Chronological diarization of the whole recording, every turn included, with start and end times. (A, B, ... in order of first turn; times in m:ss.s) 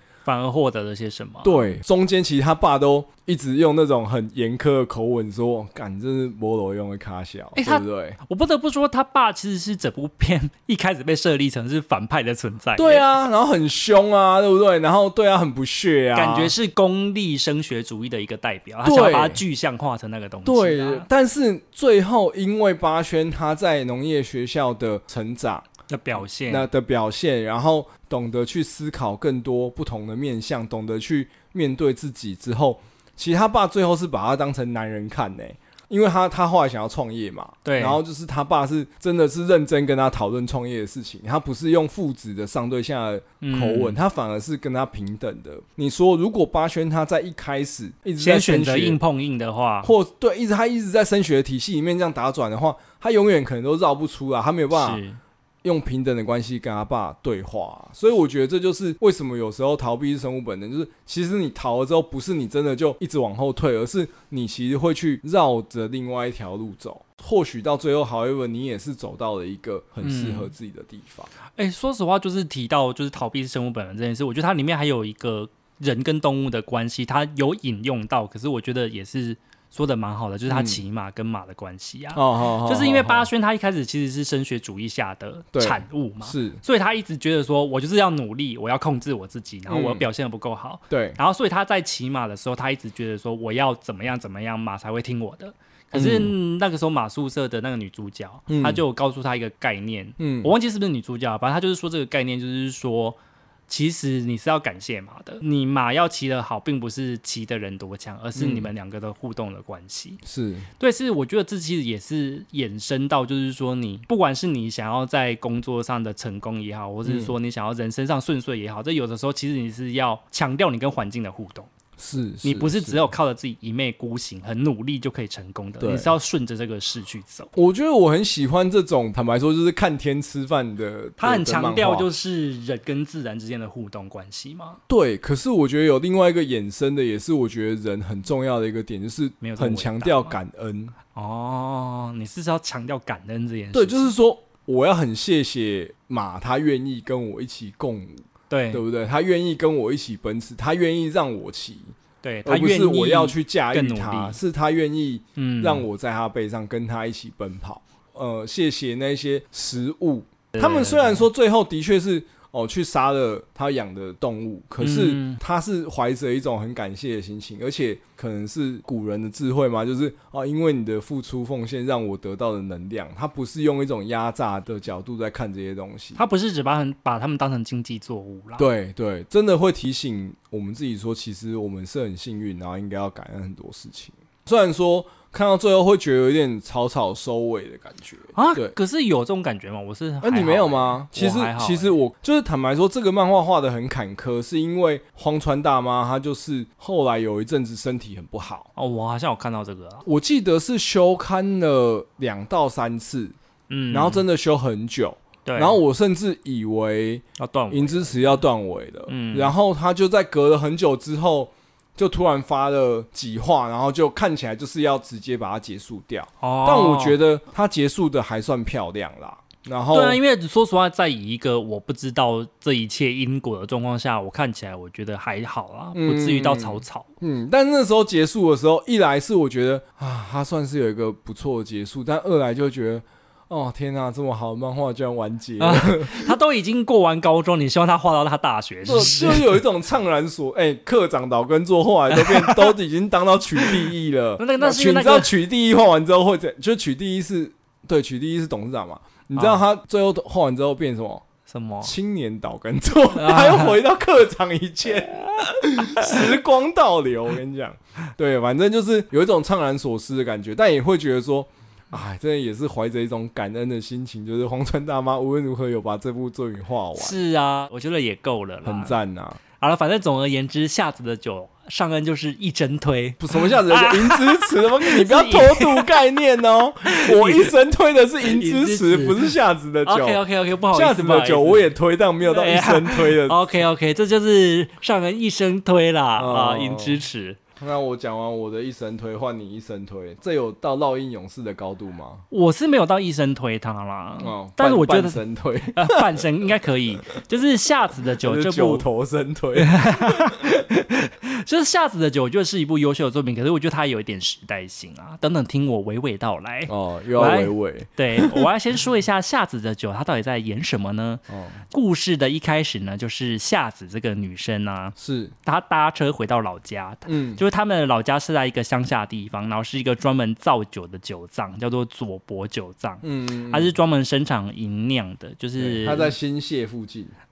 0:00.2-0:01.7 A
0:01.4-0:08.2 B
0:07.6-0:13.0 A
0:12.8-0:16.5 B
0:16.1-0:21.1 A
0:18.8-0:19.4 B
0:20.4-0:49.0 B
0:25.9-0:26.7 A
0:37.6-0:38.0 A
0:43.4-0:44.0 A
0:48.2-0:49.9 A
0:49.8-0:55.0 B
0:54.7-0:55.2 A
0:55.6-1:11.3 B
1:10.0-1:10.5 A
1:11.6-1:43.2 A
1:20.5-1:20.8 B
1:22.1-1:23.3 B
1:25.5-1:26.6 B
1:29.7-1:30.1 B
1:30.9-1:31.2 B
1:35.9-1:36.3 B
1:38.5-1:38.8 B
1:40.2-1:40.5 B
1:43.7-1:50.2 A
1:48.4-1:48.7 B
1:50.2-1:50.7 B
1:50.8-2:01.7 A
1:57.0-1:57.3 B
2:02.0-2:03.1 B
2:02.4-2:07.5 A
2:05.8-2:06.1 B
2:07.5-2:12.1 B
2:11.2-2:14.8 A
2:14.9-2:20.9 B
2:19.4-2:20.4 A
2:21.1-2:24.1 A
2:23.7-2:31.9 B
2:28.5-2:28.8 A
2:32.2-2:34.4 A
2:32.4-2:56.2 B
2:35.4-2:35.8 A
2:40.6-2:41.2 A
2:44.8-2:45.4 A
2:56.1-2:58.7 A
2:58.6-3:08.7 B
3:08.4-3:11.9 A
3:10.2-3:18.7 B
3:18.8-3:20.0 A
3:20.0-3:23.4 B
3:23.7-3:24.2 A
3:23.9-3:40.2 B
3:25.4-3:25.8 A
3:27.4-3:28.4 A
3:29.1-3:29.5 A
3:36.4-3:37.2 A
3:39.9-3:47.1 A
3:45.9-3:56.3 B
3:55.6-3:59.6 A
3:58.8-4:11.2 B
4:02.1-4:02.7 A
4:04.4-4:05.3 A
4:09.4-4:09.6 A
4:11.5-4:11.9 A
4:11.8-4:27.2 B
4:13.1-4:13.8 A
4:27.0-4:29.0 A
4:28.6-4:29.4 B
4:29.6-4:36.0 A
4:33.2-4:43.5 B
4:36.9-4:37.5 A
4:38.2-4:39.3 A
4:39.8-4:41.7 A
4:42.2-4:47.4 A
4:46.2-4:47.0 B
4:47.6-4:52.2 B
4:52.3-4:55.2 A
4:54.2-4:56.3 B
4:55.7-4:58.9 A
4:58.2-5:00.5 B
4:59.6-5:26.1 A
5:06.7-5:08.5 B
5:11.3-5:11.6 B
5:15.0-5:15.3 B
5:17.1-5:17.4 B
5:23.0-5:23.7 B
5:25.6-5:27.1 B